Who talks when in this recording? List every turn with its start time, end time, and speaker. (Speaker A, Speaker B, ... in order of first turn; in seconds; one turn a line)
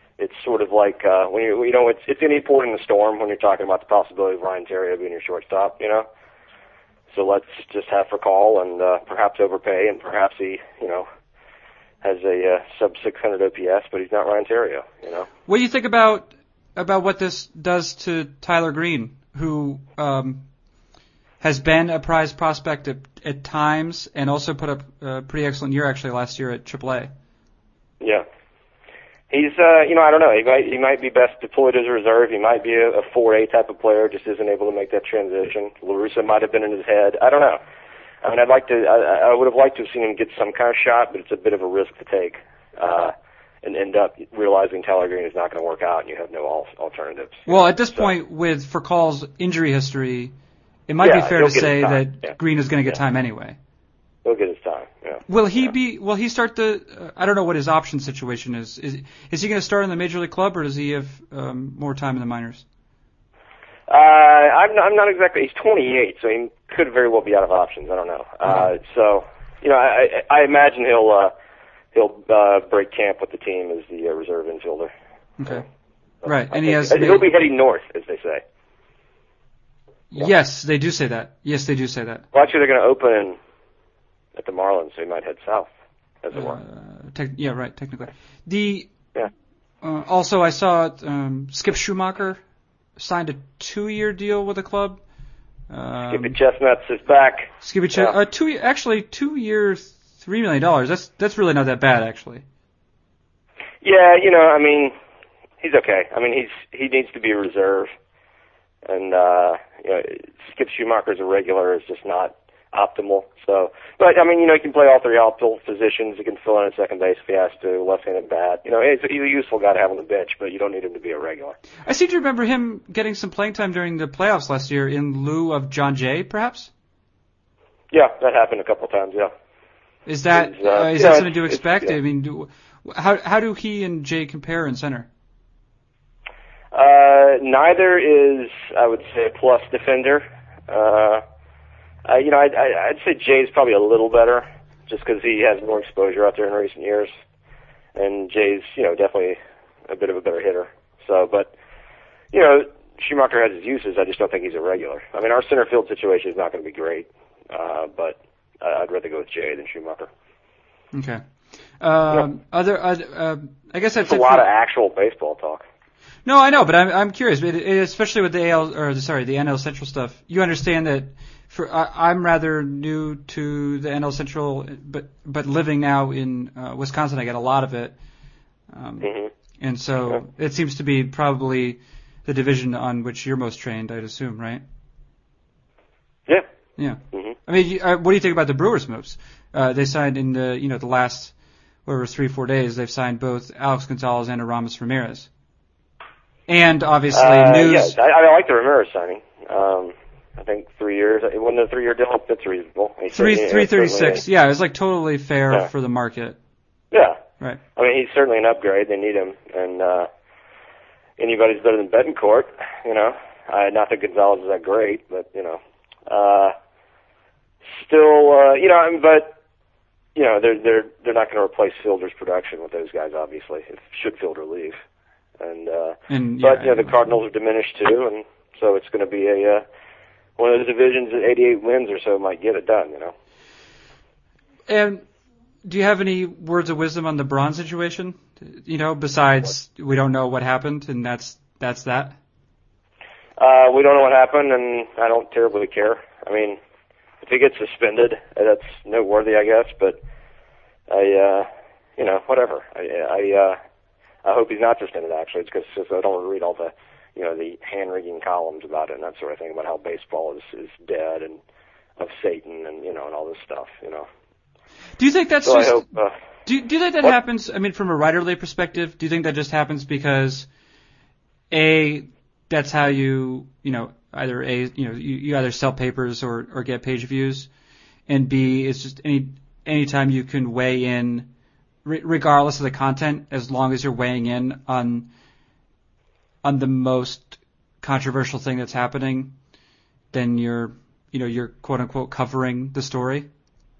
Speaker A: 0.2-6.1
Speaker A: 7.1-11.1
Speaker A: 12.0-15.3
Speaker B: 15.5-20.4
Speaker B: 21.4-27.1
Speaker A: 29.3-37.6
Speaker A: 38.2-48.1
Speaker B: 47.5-50.3
Speaker B: 50.9-53.6
Speaker A: 51.0-52.3
Speaker A: 54.2-55.7
Speaker B: 55.3-62.6
Speaker A: 63.9-71.3
Speaker A: 71.9-74.9
Speaker B: 75.4-75.6
Speaker B: 76.2-77.3
Speaker A: 76.3-78.4
Speaker B: 80.1-82.2
Speaker A: 82.3-83.4
Speaker A: 84.4-85.7
Speaker A: 86.2-86.6
Speaker B: 86.3-88.9
Speaker B: 89.8-92.4
Speaker B: 93.0-95.0
Speaker B: 95.7-96.4
Speaker A: 96.1-98.2
Speaker B: 97.6-102.4
Speaker A: 103.8-104.9
Speaker A: 105.6-107.9
Speaker A: 108.9-121.6
Speaker B: 121.8-126.7
Speaker A: 127.9-129.3
Speaker B: 130.1-135.1
Speaker A: 130.3-131.9
Speaker A: 136.7-141.2
Speaker A: 142.1-147.1
Speaker A: 148.0-151.5
Speaker A: 152.3-160.1
Speaker B: 160.9-161.2
Speaker B: 161.8-164.4
Speaker A: 164.0-165.7
Speaker B: 166.2-178.0
Speaker B: 178.7-184.6
Speaker A: 179.0-179.3
Speaker B: 186.8-191.3
Speaker B: 191.9-195.3
Speaker B: 196.5-198.0
Speaker A: 197.1-204.2
Speaker B: 203.1-206.4
Speaker A: 206.9-207.2
Speaker A: 207.8-210.1
Speaker A: 211.2-216.5
Speaker A: 217.7-219.3
Speaker A: 220.2-224.8
Speaker A: 225.4-229.6
Speaker B: 226.1-227.1
Speaker A: 230.4-233.1
Speaker B: 234.7-235.0
Speaker B: 235.6-242.2
Speaker A: 243.4-246.6
Speaker A: 247.2-250.0
Speaker A: 250.9-253.6
Speaker A: 254.2-261.4
Speaker A: 262.0-264.1
Speaker B: 265.0-265.9
Speaker A: 265.4-266.1
Speaker B: 266.5-270.5
Speaker B: 271.5-277.5
Speaker B: 278.1-281.3
Speaker B: 281.8-285.1
Speaker B: 286.4-289.3
Speaker B: 290.1-293.3